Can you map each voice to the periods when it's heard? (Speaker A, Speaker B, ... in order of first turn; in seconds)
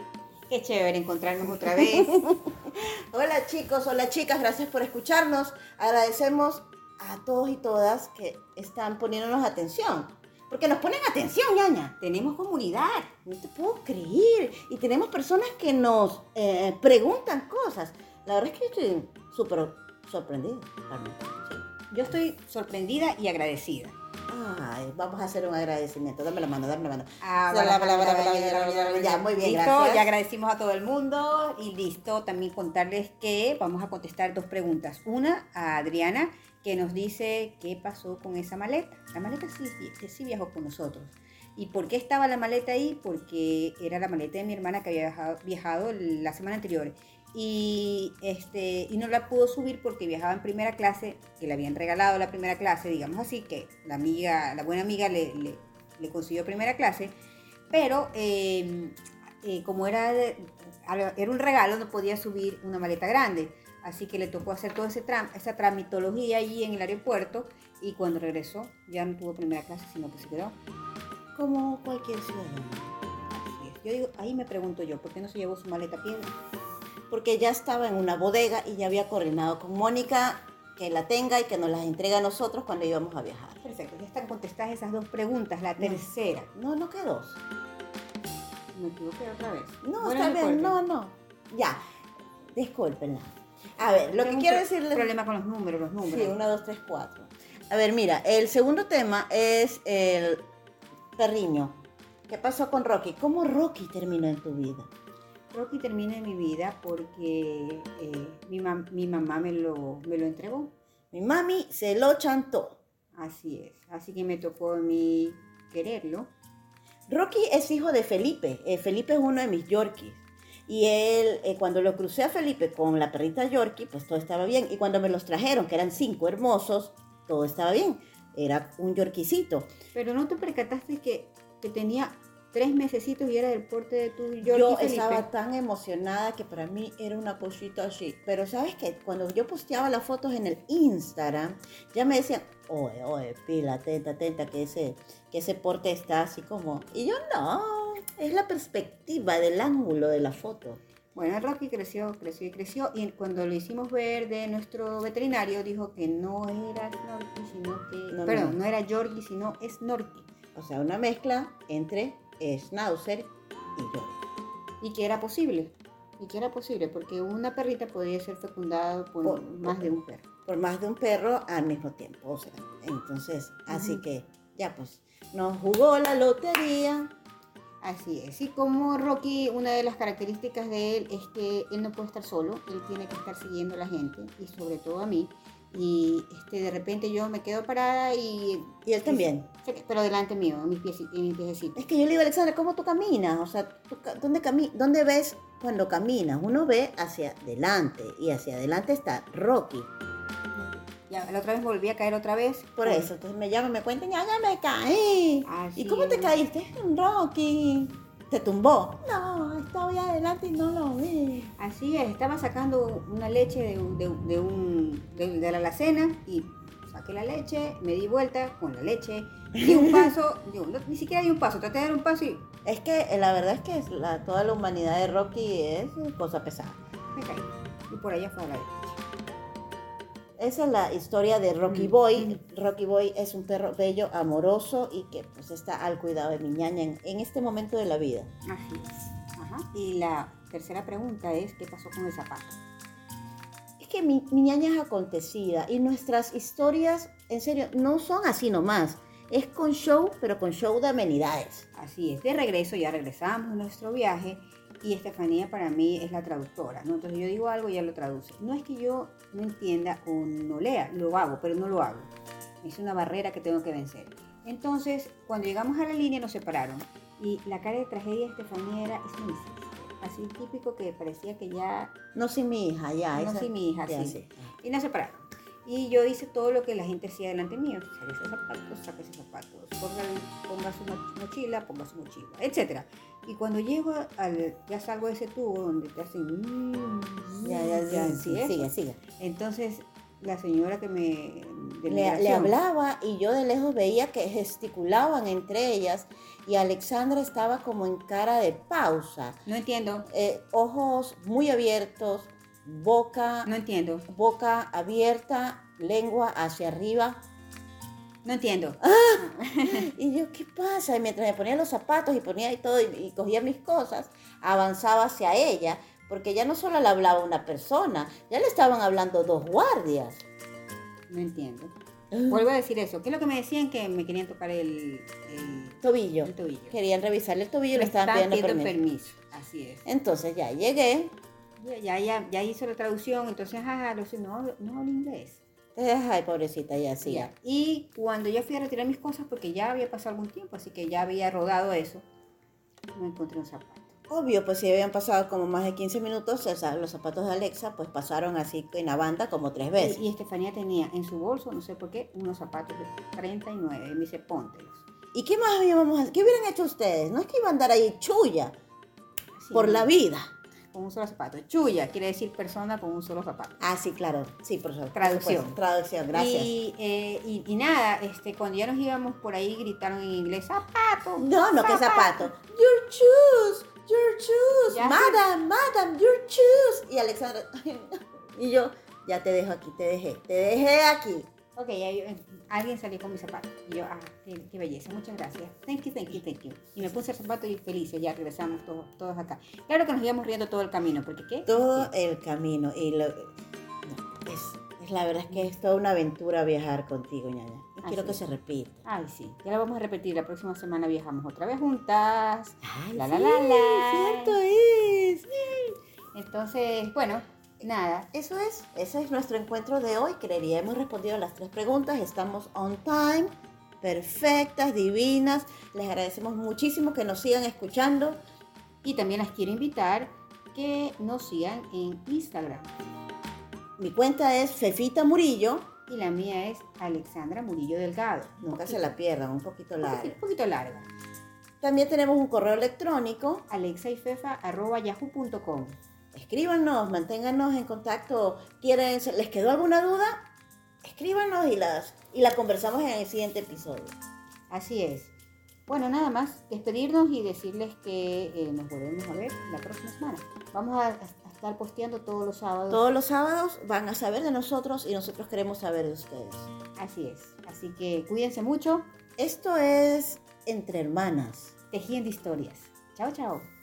Speaker A: 0.5-2.3, 11.9-13.1, 21.9-23.9, 27.2-57.1, 57.7-70.5, 73.2-76.3, 83.6-86.5, 88.7-90.8, 93.9-96.3, 105.5-110.7, 113.1-116.3, 129.9-135.3, 151.1-160.3, 164.8-170.3, 173.7-174.0, 177.8-191.8, 200.5-203.1, 205.4-206.4, 211.6-222.5, 227.1-229.0, 231.7-232.4, 238.4-242.6, 251.7-262.1, 262.6-271.9, 273.1-292.5, 299.4-300.1, 303.4-304.1, 308.2-309.9, 321.1-321.7, 322.3-326.7, 327.7-329.9, 331.6-335.4, 337.0-342.0, 342.9-343.9, 349.7-354.8, 359.4-359.9, 360.7-363.6, 364.9-365.6, 366.1-372.3, 374.7-375.2, 381.5-391.9, 397.8-398.2, 398.8-404.4, 406.1-408.1, 418.8-422.7, 425.9-428.8, 429.8-430.9, 433.5-435.8, 444.5-445.1, 445.7-452.9, 456.8-458.9, 461.7-463.5
Speaker B: 1.8-11.9, 13.2-21.8, 24.3-30.1, 71.3-73.0, 77.1-83.6, 85.8-87.4, 89.8-91.8, 92.5-95.1, 96.0-100.4, 101.2-101.7, 102.3-104.9, 111.1-112.8, 117.1-129.7, 134.4-150.8, 158.1-158.6, 160.5-164.2, 169.2-169.9, 170.4-177.1, 188.8-189.5, 191.8-199.9, 202.8-211.5, 219.6-220.0, 222.7-226.8, 230.4-238.3, 243.8-251.7, 272.1-274.5, 287.4-289.0, 291.9-299.4, 300.1-303.5, 304.1-307.2, 308.8-320.2, 322.1-322.4, 325.8-328.7, 329.9-331.1, 335.8-337.3, 344.1-350.0, 355.1-358.5, 359.5-360.3, 363.6-366.5, 371.2-381.3, 391.5-393.3, 393.8-398.8, 402.6-405.7, 408.1-418.2, 423.8-425.7, 428.4-430.1, 431.6-433.4, 436.1-440.3, 440.8-444.0, 452.7-456.5, 459.2-461.5